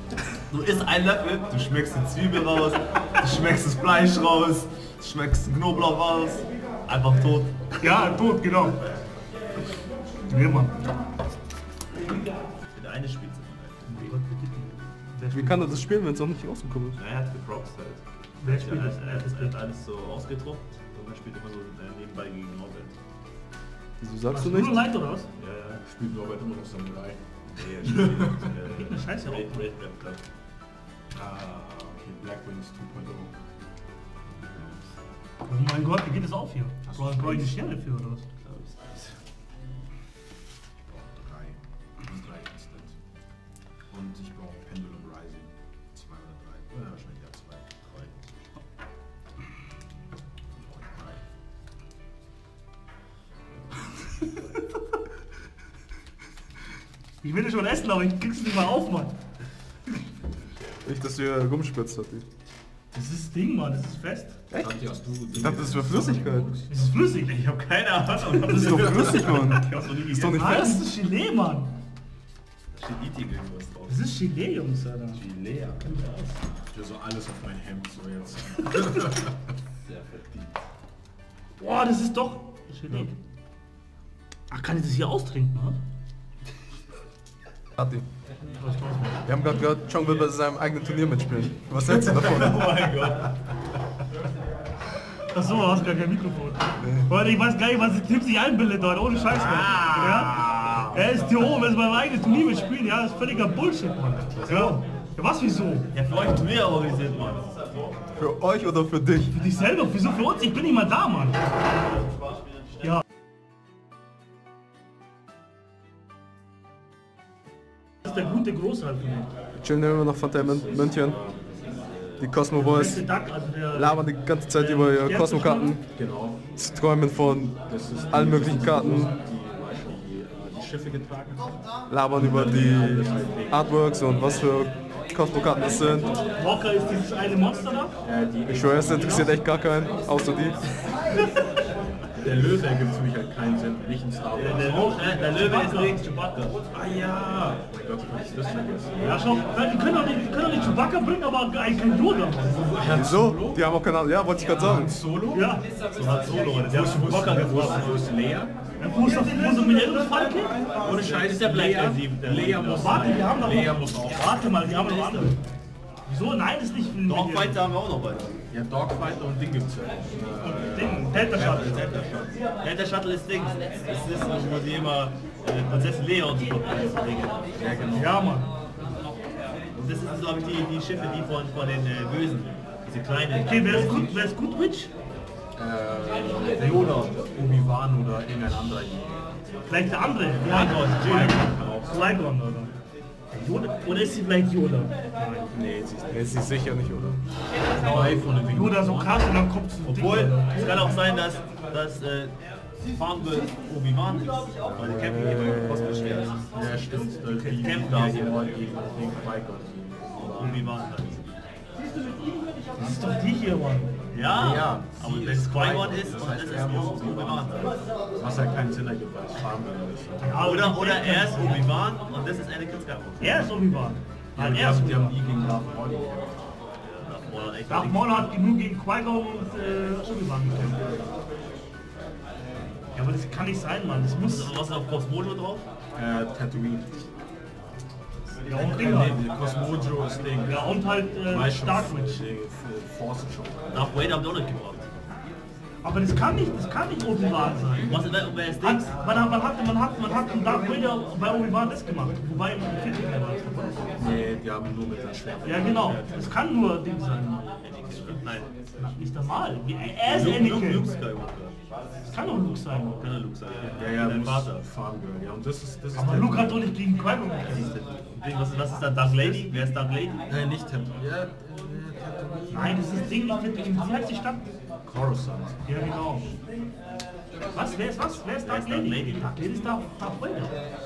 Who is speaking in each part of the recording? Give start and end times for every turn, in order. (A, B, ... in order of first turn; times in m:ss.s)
0:00.5-0:07.8 A
0:07.8-0:08.8 B
0:10.3-0:11.0 B
0:12.7-0:14.2 A
0:13.9-0:15.9 B
0:15.3-0:17.0 C
0:17.0-0:23.0 A
0:18.4-0:19.6 B
0:24.0-0:24.8 C
0:24.3-0:25.3 B
0:25.4-0:25.8 A
0:25.8-0:28.5 D
0:27.5-0:30.2 A
0:28.7-0:29.6 B
0:31.1-0:33.4 D
0:34.3-0:34.9 A
0:35.5-0:38.2 B
0:36.8-0:37.6 D
0:38.4-0:39.2 A
0:40.8-0:43.0 D
0:43.9-0:47.8 D
0:47.9-0:48.2 A
0:50.5-0:51.2 D
0:57.2-0:59.1 B
1:00.8-1:02.2 C
1:02.9-1:04.4 B
1:04.6-1:06.9 D
1:05.3-1:06.5 C
1:06.7-1:07.4 B
1:07.3-1:10.7 A
1:08.5-1:10.8 C
1:08.5-1:09.4 D
1:10.3-1:11.7 B
1:12.7-1:14.0 A
1:13.9-1:15.2 B
1:15.2-1:15.8 D
1:15.7-1:16.3 A
1:16.7-1:19.4 D
1:19.9-1:20.6 A
1:21.6-1:23.2 B
1:24.5-1:25.8 B
1:27.8-1:28.0 C
1:28.6-1:29.2 B
1:29.3-1:32.9 C
1:31.7-1:33.5 A
1:35.3-1:45.9 B
1:39.3-1:41.0 A
1:44.4-1:44.8 A
1:45.9-1:48.0 A
1:48.2-1:49.3 C
1:49.3-1:51.4 B
1:51.5-1:52.4 A
1:58.0-1:59.3 B
1:59.6-2:01.2 C
2:00.3-2:01.5 D
2:01.6-2:02.3 A
2:02.2-2:03.0 C
2:02.6-2:05.8 B
2:03.7-2:05.8 C
2:05.9-2:06.5 D
2:06.6-2:09.1 C
2:07.4-2:14.7 D
2:11.9-2:16.2 C
2:15.6-2:16.2 D
2:16.3-2:17.9 B
2:18.0-2:19.5 D
2:18.5-2:20.7 C
2:22.1-2:25.0 D
2:24.3-2:26.6 A
2:24.4-2:26.0 B
2:26.7-2:29.5 D
2:29.0-2:32.7 B
2:32.4-2:33.7 D
2:32.9-2:35.0 C
2:34.5-2:38.6 D
2:35.3-2:35.7 B
2:35.9-2:38.1 A
2:38.8-2:40.6 B
2:40.5-2:44.8 D
2:40.8-2:43.1 A
2:42.8-2:45.4 B
2:44.6-2:45.3 A
2:46.1-2:47.6 B
2:47.0-2:48.4 A
2:48.5-2:52.3 D
2:50.4-2:51.8 B
2:51.3-2:57.8 A
2:57.5-2:58.2 D
2:57.9-2:58.5 B
2:59.7-3:04.2 A
3:03.4-3:04.9 B
3:05.6-3:09.3 D
3:09.7-3:12.7 B
3:10.4-3:11.5 A
3:11.3-3:12.1 D
3:13.3-3:15.5 B
3:15.5-3:17.2 D
3:16.1-3:17.2 C
3:17.8-3:19.4 D
3:17.8-3:21.0 B
3:19.8-3:22.4 A
3:22.9-3:26.5 A
3:24.6-3:30.8 D
3:25.0-3:26.3 C
3:26.9-3:27.6 B
3:27.5-3:28.6 A
3:30.2-3:32.2 A
3:32.8-3:34.0 B
3:34.1-3:37.8 A
3:34.2-3:40.4 D
3:40.2-3:41.7 B
3:40.4-3:43.6 A
3:43.2-3:45.3 B
3:44.4-3:46.5 D
3:46.8-3:48.4 A
3:47.7-3:50.8 B
3:53.0-3:54.5 B
3:54.2-3:55.7 A
3:55.9-3:57.1 D
3:58.4-3:59.2 B
3:58.5-4:04.3 D
4:00.4-4:02.2 B
4:03.7-4:04.9 A
4:05.8-4:13.9 B
4:07.8-4:08.9 A
4:14.0-4:16.2 D
4:15.4-4:18.2 B
4:17.6-4:18.5 A
4:18.7-4:20.9 B
4:19.8-4:24.7 A
4:22.1-4:23.0 B
4:23.7-4:26.7 D
4:26.0-4:27.7 B
4:27.4-4:30.2 A
4:30.3-4:33.2 D
4:32.5-4:34.5 B
4:34.8-4:35.9 D
4:35.6-4:36.3 B
4:37.5-4:40.6 B
4:38.4-4:39.6 A